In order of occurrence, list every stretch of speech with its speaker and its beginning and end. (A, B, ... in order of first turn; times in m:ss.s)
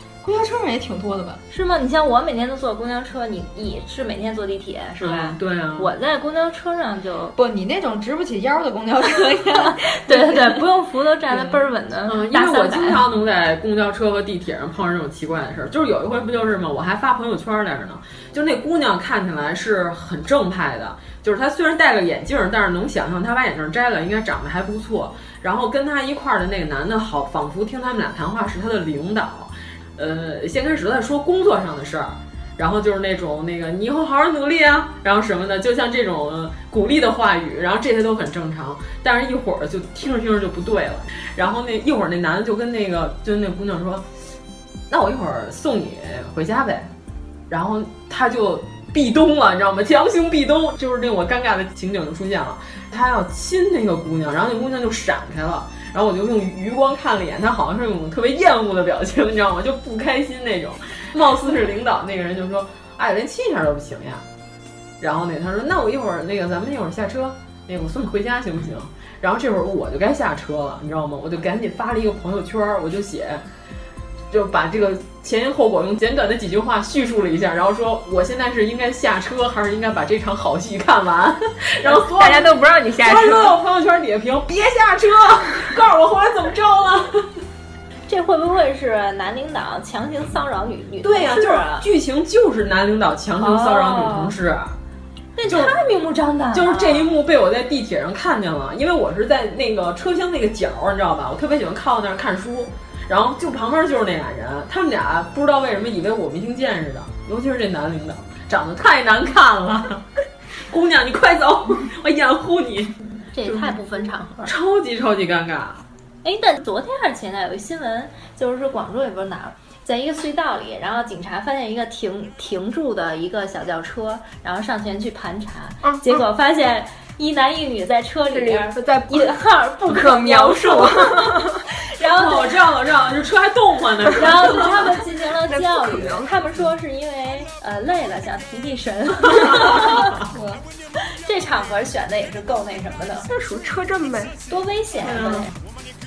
0:00.2-0:01.4 A
0:01.5-0:07.3 B
0:05.0-0:05.9 C
0:07.3-0:10.5 A
0:09.9-0:13.0 B
0:12.0-0:44.0 C
0:44.9-0:46.9 C
0:47.5-1:04.2 C
1:05.0-1:13.4 C
1:14.3-1:27.3 C
1:21.8-1:23.5 D
1:28.1-1:31.9 B
1:31.0-1:34.8 C
1:33.4-1:34.3 B
1:35.4-1:37.1 B
1:35.5-1:35.7 C
1:36.5-1:50.0 C
1:50.7-1:53.8 C
1:53.3-1:54.5 B
1:54.4-1:55.8 C
1:56.2-2:12.5 B
2:05.8-2:06.2 D
2:08.3-2:11.6 D
2:12.0-2:14.8 C
2:14.1-2:20.1 B
2:15.5-2:16.3 D
2:21.2-2:23.3 B
2:23.2-2:24.3 D
2:24.5-2:25.5 B
2:25.0-2:25.5 C